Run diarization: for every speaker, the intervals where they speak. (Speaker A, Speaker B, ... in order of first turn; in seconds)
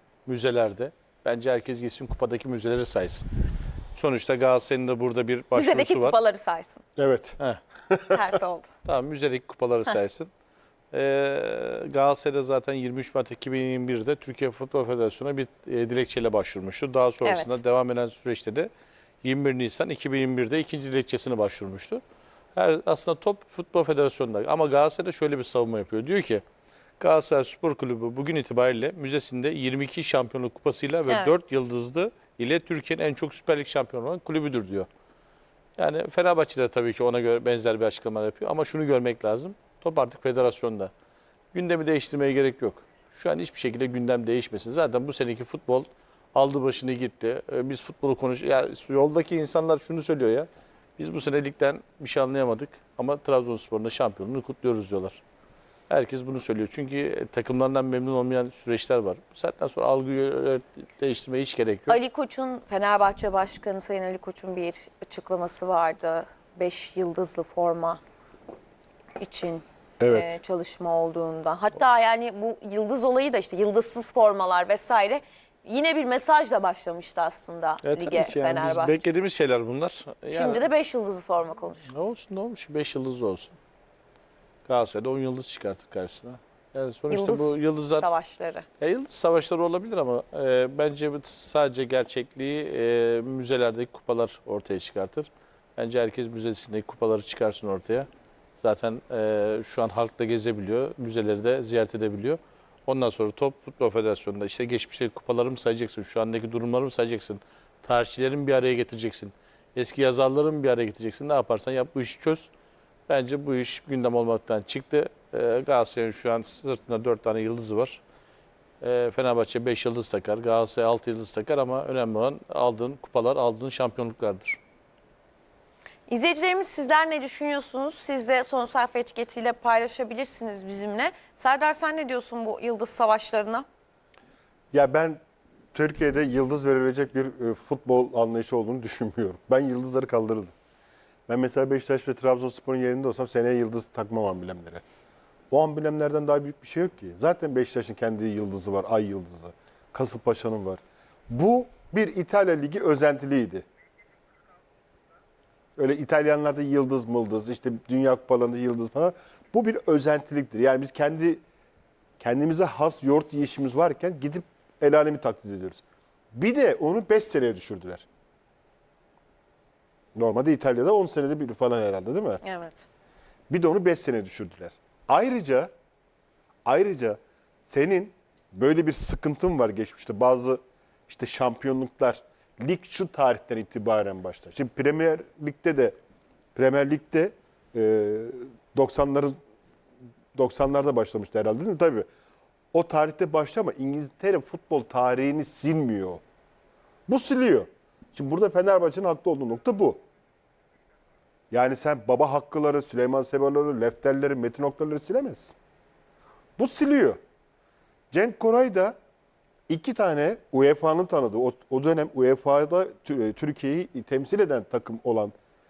Speaker A: 0.2-3.3, 3.9-6.2, 8.8-10.3, 10.9-18.7, 19.2-22.0, 22.5-26.4, 27.0-34.9, 35.8-40.9, 41.5-55.2, 55.9-62.0, 77.8-80.7, 81.9-83.5, 84.7-88.1, 88.8-98.1, 98.6-112.5, 113.1-118.0, 118.8-124.6
Speaker B: 5.5-6.8, 8.1-8.7, 17.2-17.6, 31.1-31.4, 61.9-68.0, 69.2-79.0, 80.3-81.9, 87.1-88.7, 126.1-133.6, 172.4-172.9
Speaker C: 7.0-7.4, 7.9-8.2, 70.0-70.4, 134.7-135.2, 135.7-140.5, 141.3-144.8, 145.5-153.6, 155.8-161.4, 162.2-168.0, 170.1-172.4, 173.5-175.7, 176.6-185.9, 186.5-189.3, 190.3-192.1, 192.7-196.2, 197.1-200.0, 201.5-205.5, 206.6-207.2, 208.1-208.9, 209.7-215.3